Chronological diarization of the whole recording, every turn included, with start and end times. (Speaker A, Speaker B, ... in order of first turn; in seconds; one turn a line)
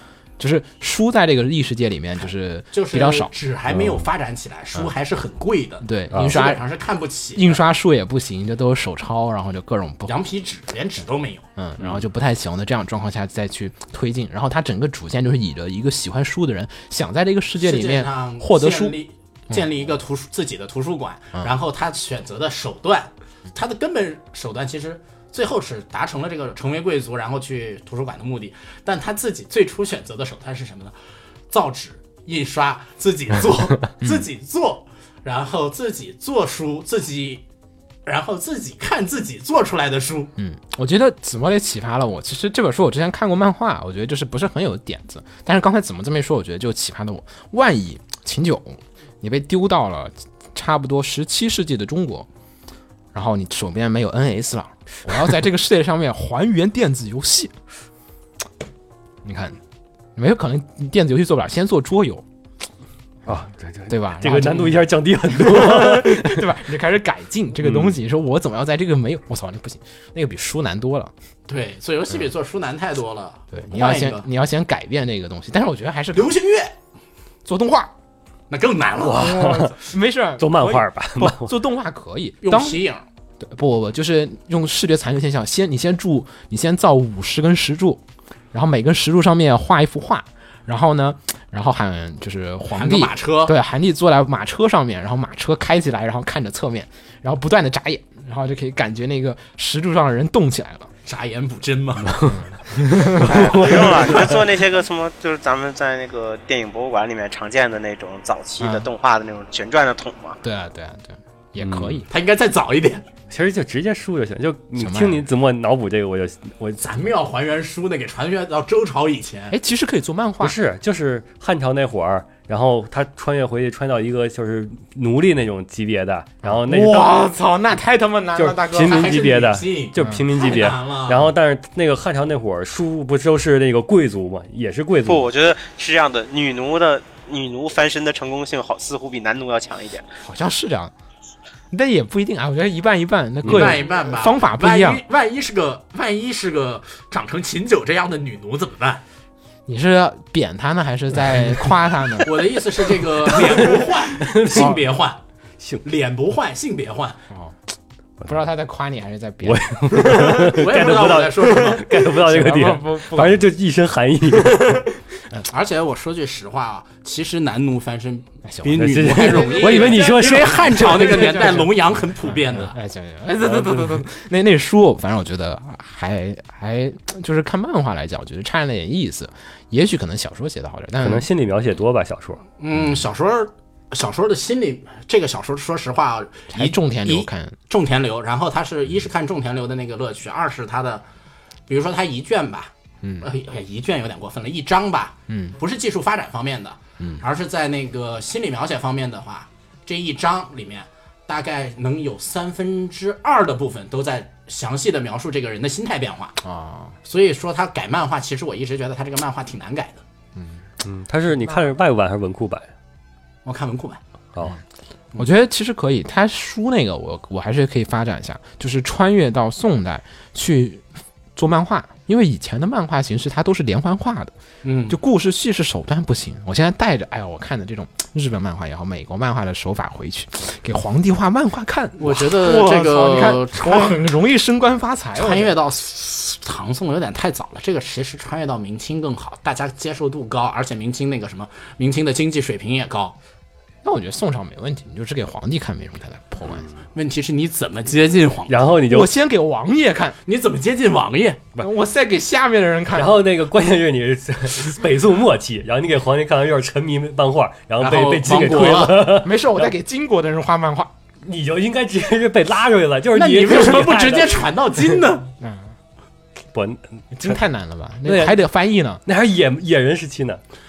Speaker A: 0.4-3.3
Speaker B: 2.7-7.6
Speaker C: 3.7-4.0
Speaker A: 5.8-6.6
Speaker A: 7.3-10.2
Speaker B: 10.1-11.5
Speaker A: 11.6-19.0
Speaker C: 11.8-12.0
Speaker B: 17.6-30.9
Speaker B: 31.5-37.4
Speaker A: 34.0-34.2
Speaker B: 38.0-40.3
Speaker A: 40.4-52.3
Speaker A: 53.1-57.5
Speaker A: 59.2-59.6
Speaker A: 60.1-62.2
Speaker C: 63.2-66.5
Speaker A: 63.9-71.1
Speaker C: 67.6-68.0
Speaker B: 71.5-74.3
Speaker A: 73.5-76.3
Speaker B: 76.1-76.7
Speaker A: 77.4-77.9
Speaker B: 78.5-79.4
Speaker C: 79.0-79.8
Speaker A: 79.1-82.8
Speaker C: 80.4-81.5
Speaker B: 82.4-83.0
Speaker A: 83.4-100.9
Speaker B: 92.7-93.5
Speaker B: 101.0-102.2
Speaker A: 102.1-103.7
Speaker C: 103.0-104.4
Speaker D: 103.2-110.4
Speaker A: 108.6-108.9
Speaker A: 110.4-112.0
Speaker C: 111.6-112.0
Speaker B: 112.1-113.0
Speaker C: 113.3-116.9
Speaker A: 114.8-115.3
Speaker B: 116.8-119.5
Speaker A: 119.5-120.6
Speaker C: 120.4-127.2
Speaker A: 126.4-129.3
Speaker C: 128.3-135.3
Speaker B: 128.7-131.3
Speaker A: 130.0-130.3
Speaker D: 135.1-140.1
Speaker A: 140.2-140.9
Speaker A: 141.7-145.0
Speaker C: 143.4-143.8
Speaker B: 143.5-149.0
Speaker A: 149.7-152.5
Speaker B: 152.2-155.2
Speaker C: 153.3-154.8
Speaker B: 155.8-157.2
Speaker A: 157.3-157.6
Speaker A: 158.2-163.5
Speaker C: 159.4-164.8
Speaker B: 160.5-161.9
Speaker A: 164.5-165.4
Speaker B: 165.5-172.8
Speaker A: 168.4-181.3
Speaker C: 168.7-171.7
Speaker C: 173.4-174.0
Speaker C: 181.0-182.4
Speaker B: 182.6-191.0
Speaker A: 182.7-183.0
Speaker A: 186.5-187.6
Speaker B: 191.7-206.4
Speaker A: 193.0-193.3
Speaker A: 195.3-195.6
Speaker A: 206.4-207.0
Speaker B: 207.0-210.0
Speaker A: 210.3-210.7
Speaker C: 210.8-212.7
Speaker B: 213.4-214.0
Speaker A: 215.2-224.3
Speaker B: 224.6-225.0
Speaker A: 224.9-235.6
Speaker B: 232.0-234.0
Speaker B: 235.1-243.2
Speaker A: 243.8-246.7
Speaker B: 246.9-248.6
Speaker C: 248.5-249.1
Speaker A: 248.9-250.2
Speaker B: 250.2-251.4
Speaker A: 251.6-253.2
Speaker C: 252.9-259.7
Speaker B: 257.8-259.1
Speaker A: 259.0-260.9
Speaker C: 261.2-264.8
Speaker B: 263.1-265.3
Speaker A: 265.4-265.7
Speaker C: 266.5-267.4
Speaker A: 267.1-269.0
Speaker C: 268.0-268.4
Speaker C: 269.0-270.4